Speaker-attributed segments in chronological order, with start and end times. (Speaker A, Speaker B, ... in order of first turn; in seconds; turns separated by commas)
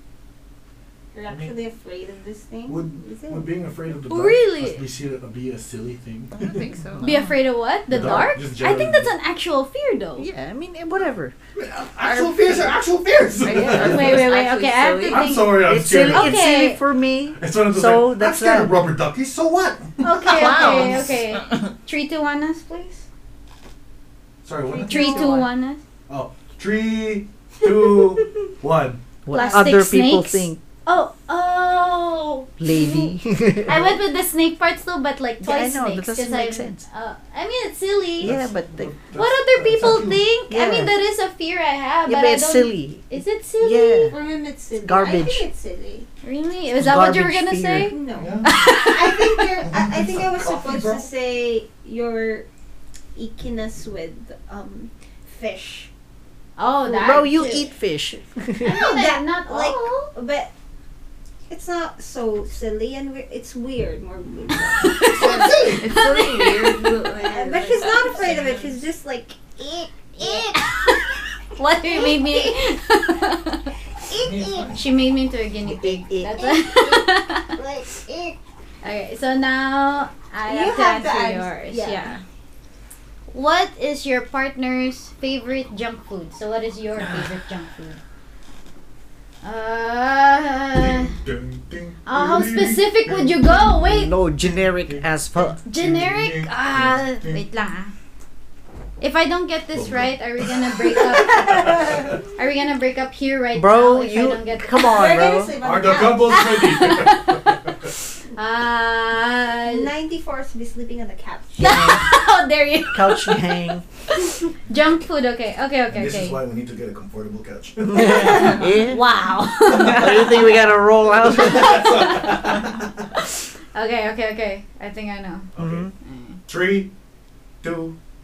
Speaker A: 1.1-3.5, Speaker B: 1.3-1.5, Speaker B: 2.7-6.5, Speaker C: 4.1-4.8, Speaker D: 6.3-7.3, Speaker C: 7.0-10.3, Speaker B: 7.9-9.1, Speaker E: 10.2-11.3, Speaker B: 11.5-14.3, Speaker D: 12.0-12.7, Speaker D: 13.4-15.3, Speaker C: 13.7-16.8, Speaker B: 15.1-16.4, Speaker E: 15.6-18.8, Speaker B: 17.4-20.6, Speaker C: 20.0-23.0, Speaker A: 20.2-21.1, Speaker B: 24.4-25.2, Speaker A: 24.7-25.4, Speaker C: 24.9-25.8, Speaker B: 26.1-29.0, Speaker E: 29.2-30.6, Speaker C: 29.3-38.3, Speaker E: 32.6-33.9, Speaker E: 35.4-36.8, Speaker E: 38.2-38.9, Speaker B: 38.2-40.2, Speaker C: 39.1-44.1, Speaker E: 40.5-40.9, Speaker E: 42.0-44.1, Speaker A: 44.0-46.1, Speaker E: 44.8-45.5, Speaker C: 46.2-49.6, Speaker E: 46.8-47.9, Speaker A: 47.8-52.5, Speaker B: 48.2-48.5, Speaker B: 49.6-51.0, Speaker A: 53.1-55.9, Speaker C: 56.6-57.6, Speaker E: 56.9-58.8, Speaker A: 56.9-57.6, Speaker C: 58.6-60.1, Speaker A: 58.6-60.5, Speaker A: 61.5-65.5, Speaker C: 64.9-66.8, Speaker B: 64.9-65.9, Speaker D: 65.2-68.8, Speaker A: 67.2-71.2, Speaker C: 70.2-73.7, Speaker A: 71.8-72.7, Speaker A: 74.1-74.8, Speaker B: 74.1-74.8, Speaker C: 74.7-77.6, Speaker E: 75.6-76.5, Speaker A: 76.3-78.4, Speaker C: 78.8-82.2, Speaker A: 80.5-82.2, Speaker C: 83.3-88.0, Speaker C: 89.4-91.1, Speaker B: 90.7-93.7, Speaker C: 92.0-94.1, Speaker E: 93.9-95.6, Speaker B: 94.5-97.4, Speaker C: 95.7-97.9, Speaker C: 99.0-101.8, Speaker B: 99.7-102.2, Speaker A: 101.3-102.1, Speaker C: 102.3-105.2, Speaker E: 103.5-105.6, Speaker A: 104.8-106.5, Speaker B: 105.6-107.7, Speaker C: 106.2-107.5, Speaker C: 108.3-109.9, Speaker A: 109.6-112.0, Speaker C: 111.6-113.5, Speaker E: 111.6-112.0, Speaker E: 112.9-113.8, Speaker C: 114.2-116.4, Speaker B: 115.9-118.6, Speaker E: 117.8-122.0, Speaker C: 118.0-120.5, Speaker B: 121.1-122.9, Speaker C: 121.3-122.6, Speaker C: 123.7-125.5, Speaker B: 125.5-125.9, Speaker E: 125.6-125.9, Speaker C: 126.0-126.4, Speaker B: 126.5-126.9, Speaker B: 127.6-128.0